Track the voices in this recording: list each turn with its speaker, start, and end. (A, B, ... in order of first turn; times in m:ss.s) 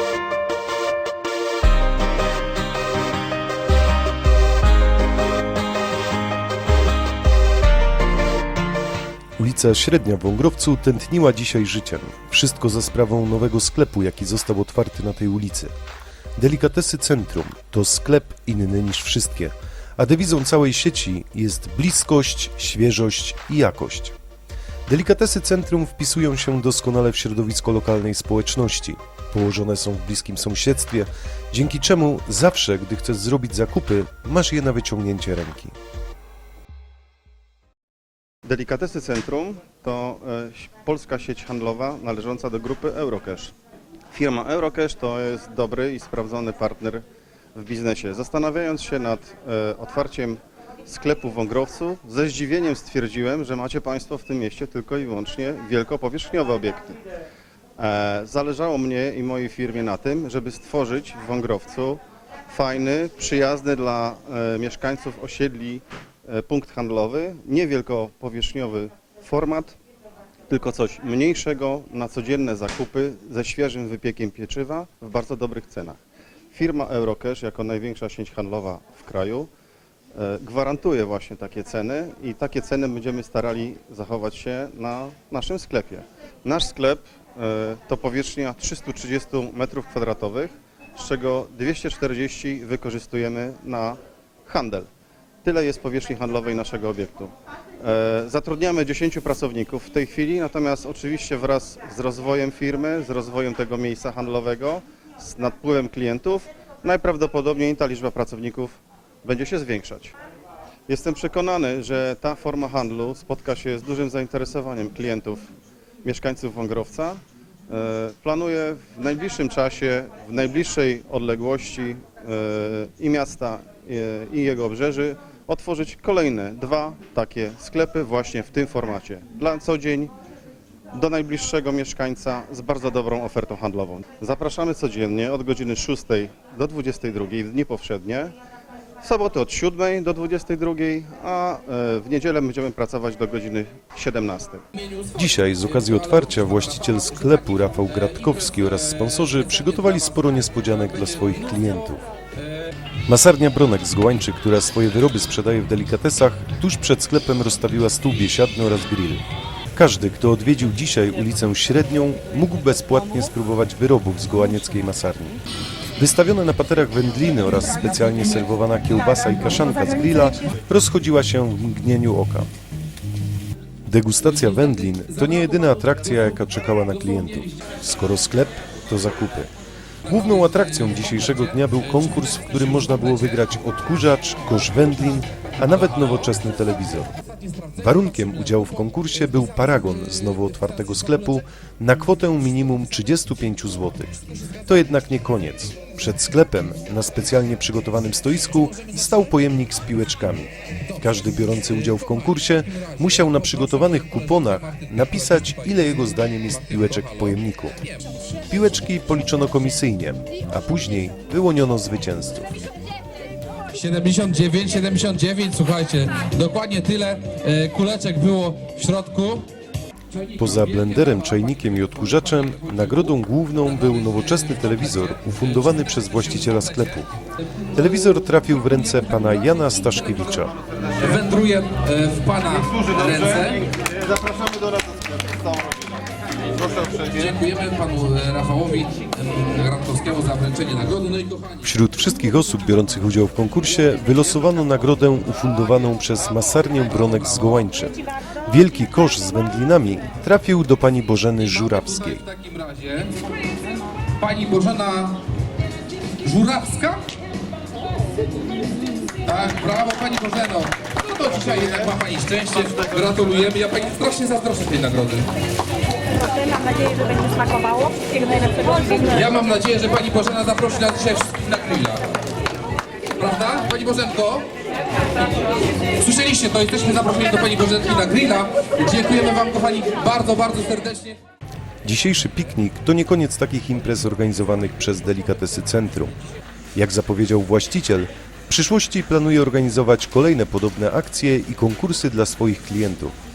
0:09.4-0:15.7 A
0:16.4-0:24.2 A
0:24.9-0:35.7 A
0:38.4-0:43.5 B
0:44.1-0:47.0 B
0:47.6-0:57.0 B
0:57.8-1:09.8 B
1:10.5-1:16.0 B
1:16.5-1:19.5 B
1:20.1-1:34.9 B
1:35.4-1:50.2 B
1:50.9-1:55.5 B
1:56.0-2:10.1 B
2:10.9-2:18.3 B
2:19.0-2:24.6 B
2:24.9-2:31.7 C
2:25.2-2:32.1 A
2:33.1-2:39.2 A
2:39.8-2:45.4 A
2:46.0-2:52.5 A
2:53.9-2:59.5 A
3:00.0-3:07.2 A
3:00.1-3:01.8 C
3:02.5-3:03.2 C
3:07.8-3:27.8 A
3:23.9-3:27.3 C
3:28.5-3:32.5 A
3:33.7-3:39.5 C
3:40.1-3:41.1 C
3:40.4-3:47.1 A
3:44.0-3:44.8 C
3:47.7-3:50.6 A
3:51.0-3:53.7 C
3:52.6-3:57.3 B
3:57.1-4:01.6 C
4:01.6-4:12.2 A
4:07.0-4:07.6 C
4:11.6-4:13.2 C
4:14.2-4:15.2 C
4:16.2-4:17.1 C
4:19.2-4:25.3 C
4:26.4-4:28.9 D
4:28.5-4:32.1 C
4:33.2-4:34.5 C
4:36.0-4:41.2 C
4:41.8-4:46.2 A
4:46.8-4:53.2 A